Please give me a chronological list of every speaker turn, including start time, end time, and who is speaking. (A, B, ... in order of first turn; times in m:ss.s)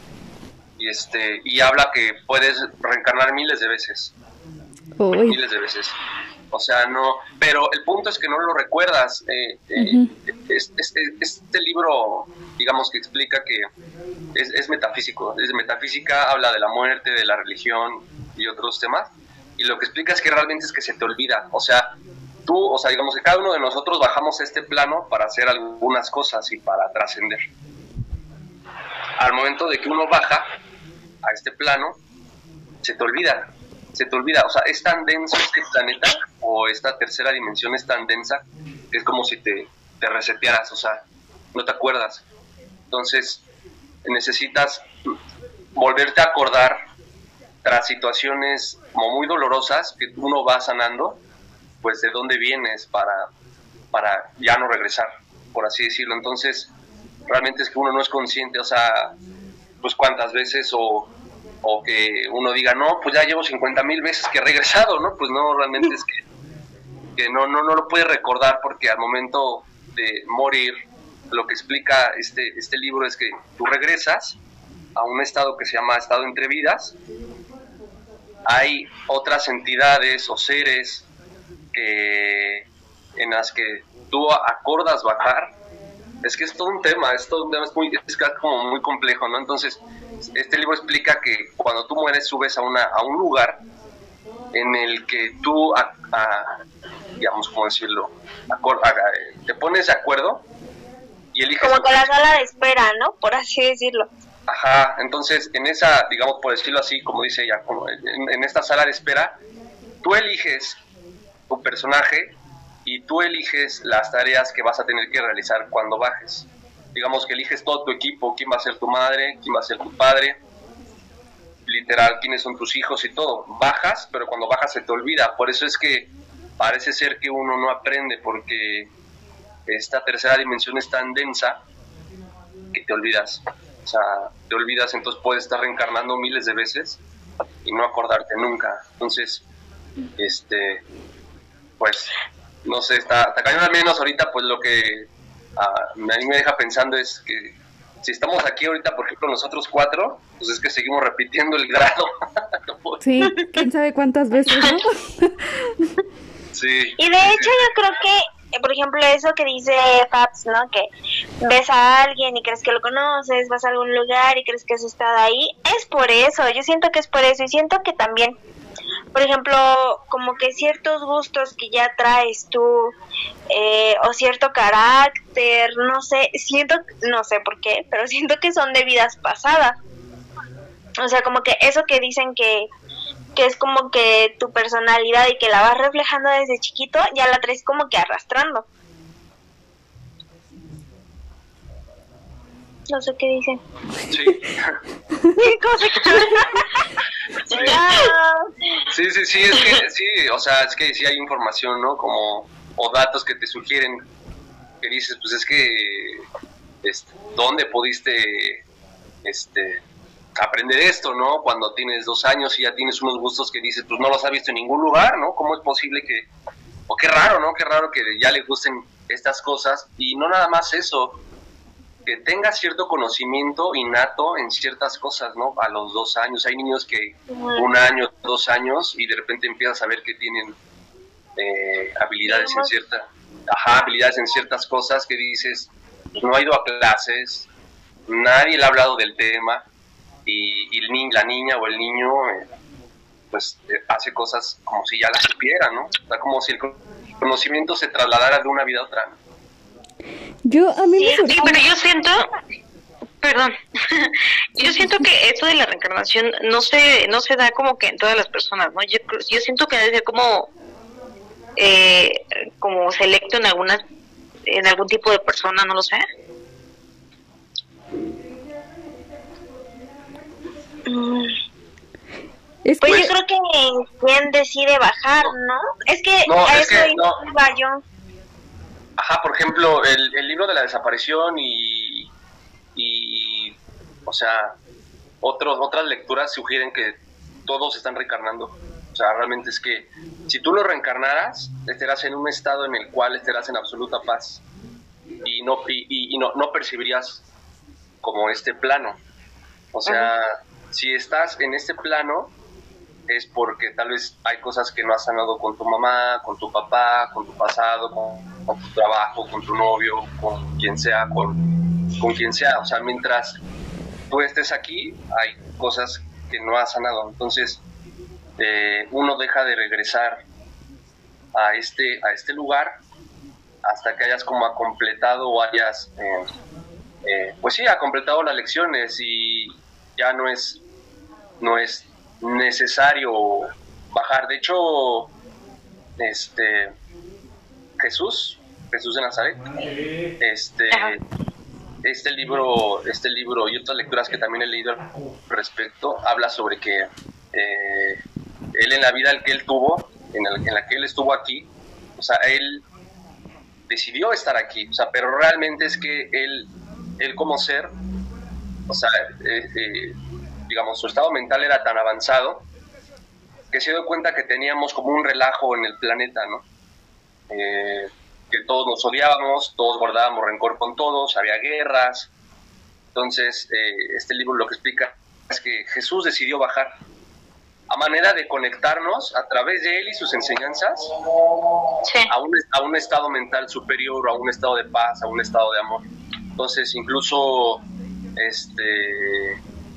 0:00.8-0:04.1 A
0:05.0-0:05.4 B
0:05.1-0:06.0 A
0:06.5-0:13.7 A
0:09.8-0:10.1 B
0:14.4-0:27.4 A
0:29.2-0:30.5 A
0:31.2-0:32.0 A
0:32.8-0:42.2 A
0:42.9-0:43.4 A
0:44.0-0:44.9 A
0:45.8-0:46.8 A
0:47.6-0:51.2 A
0:51.8-0:53.3 A
0:53.9-0:56.7 A
0:57.3-0:59.2 A
0:59.8-1:01.1 A
1:01.6-1:06.2 A
1:07.2-1:14.4 A
1:15.0-1:17.0 A
1:18.4-1:21.1 A
1:21.7-1:25.6 A
1:26.2-1:33.6 A
1:34.5-1:36.6 A
1:37.2-1:40.5 A
1:41.3-1:42.1 A
1:41.6-1:44.1 C
1:44.5-1:49.4 A
1:50.0-1:50.8 A
1:51.5-2:00.4 A
2:01.6-2:08.9 A
2:09.7-2:11.6 A
2:12.7-2:17.0 A
2:17.6-2:19.4 A
2:20.2-2:20.8 A
2:21.8-2:22.1 A
2:22.6-2:33.0 A
2:33.0-2:35.7 B
2:36.5-2:37.5 A
2:37.0-2:40.9 C
2:41.4-2:48.4 C
2:49.1-2:52.9 C
2:53.5-2:59.8 C
3:01.0-3:02.7 C
3:03.4-3:08.6 C
3:12.9-3:13.6 C
3:14.1-3:14.8 A
3:15.4-3:16.7 C
3:17.4-3:17.8 A
3:17.5-3:18.5 C
3:18.9-3:24.0 A
3:24.8-3:26.2 A
3:26.8-3:28.6 A
3:29.2-3:29.8 A
3:30.4-3:36.3 A
3:36.9-3:41.2 A
3:42.0-3:50.6 A
3:47.3-3:47.6 C
3:51.4-3:57.5 A
3:52.3-3:52.7 C
3:58.1-3:59.6 A
4:00.2-4:02.5 A
4:03.3-4:09.2 A
4:10.4-4:11.6 B
4:10.9-4:11.6 C
4:11.3-4:12.3 D
4:13.2-4:20.5 D
4:14.6-4:15.0 B
4:21.6-4:23.8 D
4:24.5-4:26.0 D
4:30.9-4:31.4 C
4:32.6-4:33.1 B
4:32.8-4:37.8 C
4:36.2-4:37.3 A
4:39.0-4:42.1 A
4:42.8-4:44.6 A
4:45.2-4:54.4 A
4:55.2-4:57.2 A
4:58.0-4:59.0 A
4:59.7-5:02.3 A
5:03.1-5:11.4 A
5:12.0-5:13.4 A
5:14.1-5:17.6 A
5:18.4-5:20.2 A
5:21.3-5:22.8 A
5:23.6-5:26.3 A
5:27.0-5:30.6 A
5:31.4-5:35.1 A
5:36.0-5:36.8 A
5:37.8-5:39.5 A
5:40.2-5:41.0 A
5:41.8-5:48.0 A
5:48.5-5:52.6 A
5:53.7-5:57.7 A
5:58.7-6:00.0 A
6:00.5-6:02.5 A
6:03.5-6:06.4 A
6:07.3-6:12.1 A
6:12.9-6:16.8 A
6:17.7-6:20.9 A
6:21.8-6:22.1 D
6:22.1-6:27.6 A
6:28.2-6:29.4 A